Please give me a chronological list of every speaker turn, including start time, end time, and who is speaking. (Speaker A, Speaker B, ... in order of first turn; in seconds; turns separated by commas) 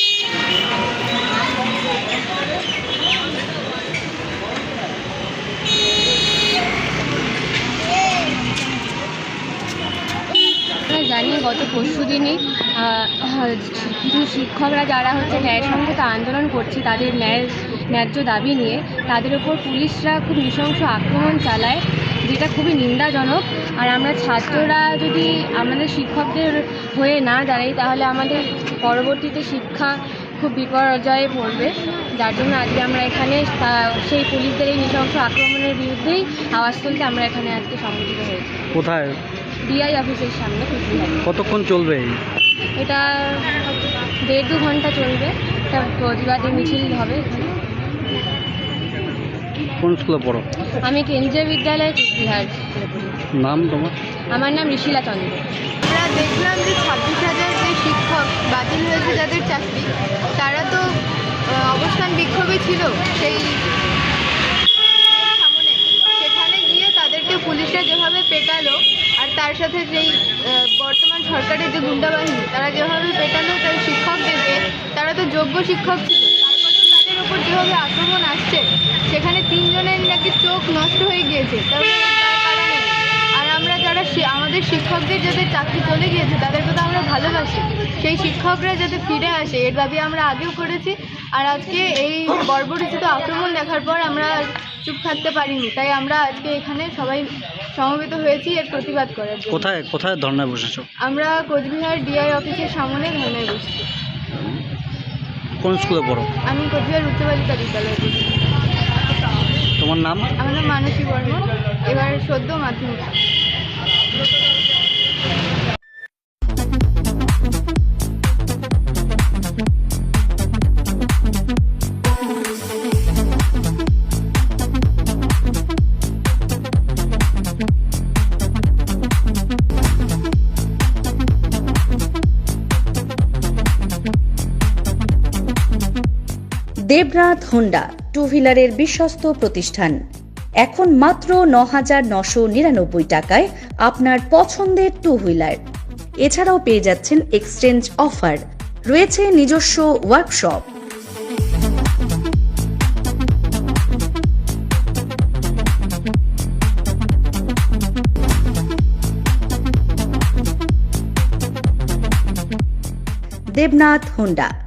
Speaker A: 10.9-38.6, Speaker B: 38.8-39.2, Speaker A: 39.6-41.2, Speaker B: 41.2-42.2, Speaker A: 42.8-47.5, Speaker B: 49.8-50.5, Speaker A: 50.8-53.1, Speaker B: 53.3-54.0, Speaker A: 54.3-55.4, Speaker C: 55.9-60.8, Speaker C: 61.5-63.6, Speaker C: 65.1-99.8, Speaker B: 99.5-100.9, Speaker C: 101.0-103.9, Speaker B: 104.3-104.6, Speaker B: 105.6-106.3, Speaker C: 106.5-108.5, Speaker B: 109.8-110.3, Speaker C: 110.4-113.1, Speaker D: 136.9-140.0, Speaker D: 140.6-145.6, Speaker D: 146.2-150.7, Speaker D: 163.5-164.5